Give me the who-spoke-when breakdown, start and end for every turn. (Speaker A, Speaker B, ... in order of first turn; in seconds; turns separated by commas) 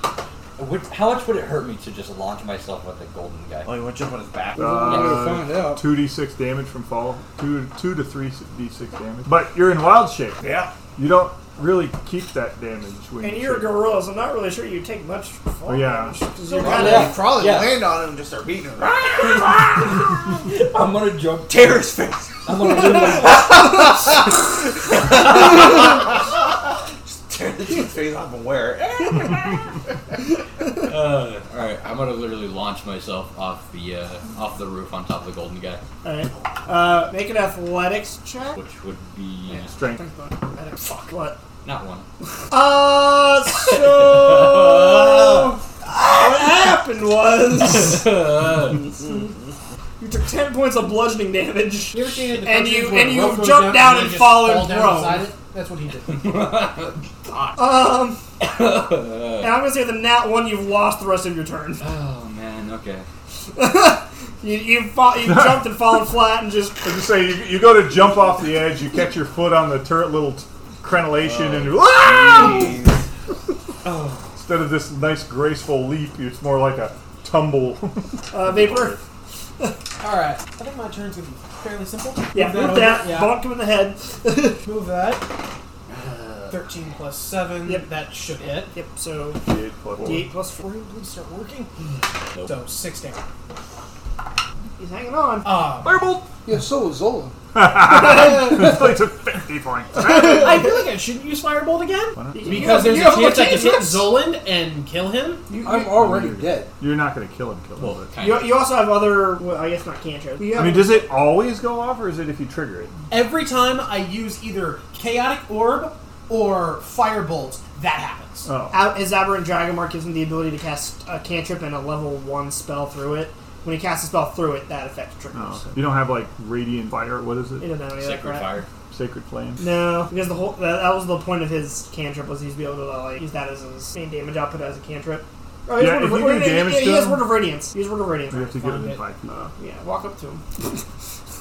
Speaker A: 0.6-3.7, Speaker B: 3.6-5.1, Speaker C: 4.6-5.8, Speaker D: 4.6-10.4, Speaker B: 10.4-10.8, Speaker D: 11.0-13.8, Speaker E: 13.2-17.2, Speaker D: 15.7-16.2, Speaker B: 16.5-19.9, Speaker A: 16.6-17.9, Speaker A: 19.0-21.7, Speaker B: 21.5-26.5, Speaker A: 22.4-23.8, Speaker B: 27.1-29.6, Speaker A: 30.8-35.8, Speaker E: 36.0-38.6, Speaker A: 38.5-39.7, Speaker E: 39.5-41.4, Speaker D: 39.7-40.0, Speaker A: 41.6-42.1, Speaker E: 42.5-48.1, Speaker A: 43.7-45.5, Speaker A: 47.6-48.9, Speaker E: 50.0-55.3, Speaker F: 51.9-56.4, Speaker A: 56.0-57.6, Speaker E: 57.6-58.2, Speaker A: 58.4-59.5, Speaker E: 59.4-61.8, Speaker A: 61.8-63.1, Speaker E: 63.5-66.8, Speaker D: 65.3-65.7, Speaker D: 66.8-72.8, Speaker B: 71.2-73.0, Speaker F: 73.9-74.2, Speaker D: 74.4-79.0, Speaker E: 78.3-79.0, Speaker F: 80.0-83.4, Speaker E: 82.3-84.6, Speaker F: 84.7-85.3, Speaker A: 85.9-86.6, Speaker F: 86.5-88.7, Speaker E: 88.7-89.4, Speaker D: 89.4-90.3, Speaker E: 90.0-90.7, Speaker F: 90.6-91.9, Speaker A: 92.3-92.6, Speaker F: 92.4-93.2, Speaker E: 94.8-95.5, Speaker F: 95.4-96.0, Speaker D: 95.9-96.3, Speaker C: 96.4-97.3, Speaker D: 97.5-100.7, Speaker F: 100.0-105.5, Speaker D: 102.2-102.8, Speaker E: 102.3-104.1, Speaker E: 105.5-105.8, Speaker D: 105.5-108.1, Speaker C: 105.6-106.7, Speaker A: 107.8-108.6, Speaker E: 108.2-111.1, Speaker D: 110.5-113.0, Speaker F: 113.1-118.5, Speaker D: 118.5-118.8, Speaker E: 118.7-125.7, Speaker D: 125.3-127.7, Speaker E: 127.6-128.6, Speaker A: 128.0-128.7, Speaker D: 128.9-129.7, Speaker E: 129.6-140.7, Speaker D: 135.8-137.3, Speaker D: 138.3-139.5